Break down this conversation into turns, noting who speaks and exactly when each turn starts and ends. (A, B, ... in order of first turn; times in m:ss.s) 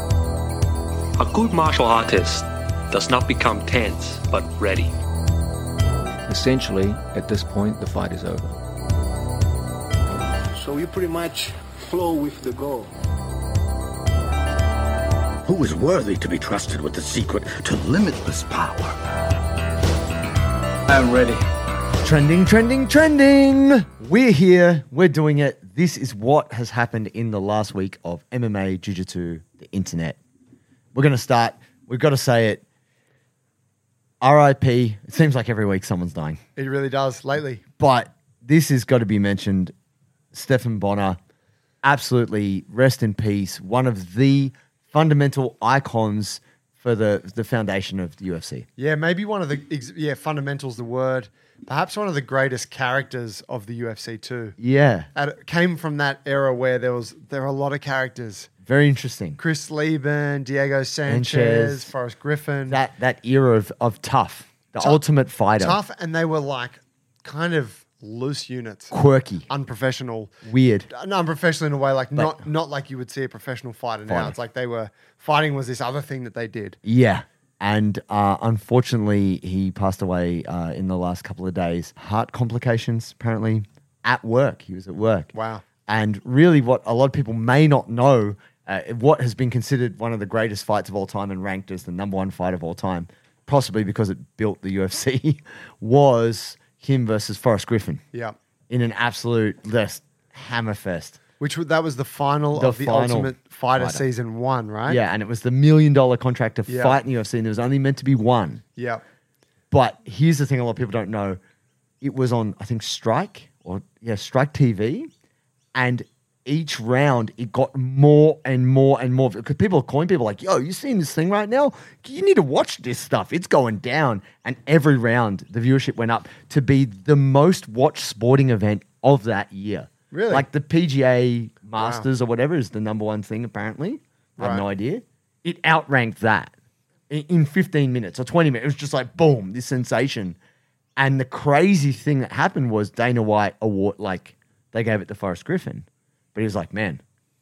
0:01.2-0:04.9 A
0:06.3-0:08.6 B
0:10.6-0:12.9 C
0:15.4-0:19.0 D
0:20.9-0:21.4 D
0:22.0-0:30.2 E
0:30.9-0:32.6 E
0:34.2-0:36.4 E
0:36.6-0:37.6 F
0:37.8-0:39.7 E
0:40.3-0:41.2 E
0:41.8-0:48.7 E
0:48.8-0:54.5 F
0:54.6-0:55.1 E
0:55.1-0:58.5 F
0:58.6-0:59.4 E
0:59.4-1:02.8 F
1:01.0-1:01.9 E
1:02.7-1:05.8 E
1:05.6-1:08.9 F
1:08.9-1:09.5 E
1:09.5-1:10.3 F
1:10.4-1:10.9 E
1:10.9-1:16.8 F
1:12.1-1:12.4 E
1:14.1-1:14.4 E
1:16.8-1:25.3 E
1:25.3-1:25.6 F
1:25.9-1:38.0 E
1:38.7-1:41.2 E
1:41.4-1:45.0 F
1:42.6-1:44.0 E
1:44.9-1:48.6 E
1:46.7-1:47.0 F
1:48.7-1:49.0 F
1:49.7-1:51.4 E
1:52.0-1:55.1 E
1:55.7-2:16.5 E
2:10.1-2:10.4 F
2:11.8-2:12.1 F
2:14.4-2:14.6 F
2:17.1-2:20.4 E
2:21.0-2:27.0 E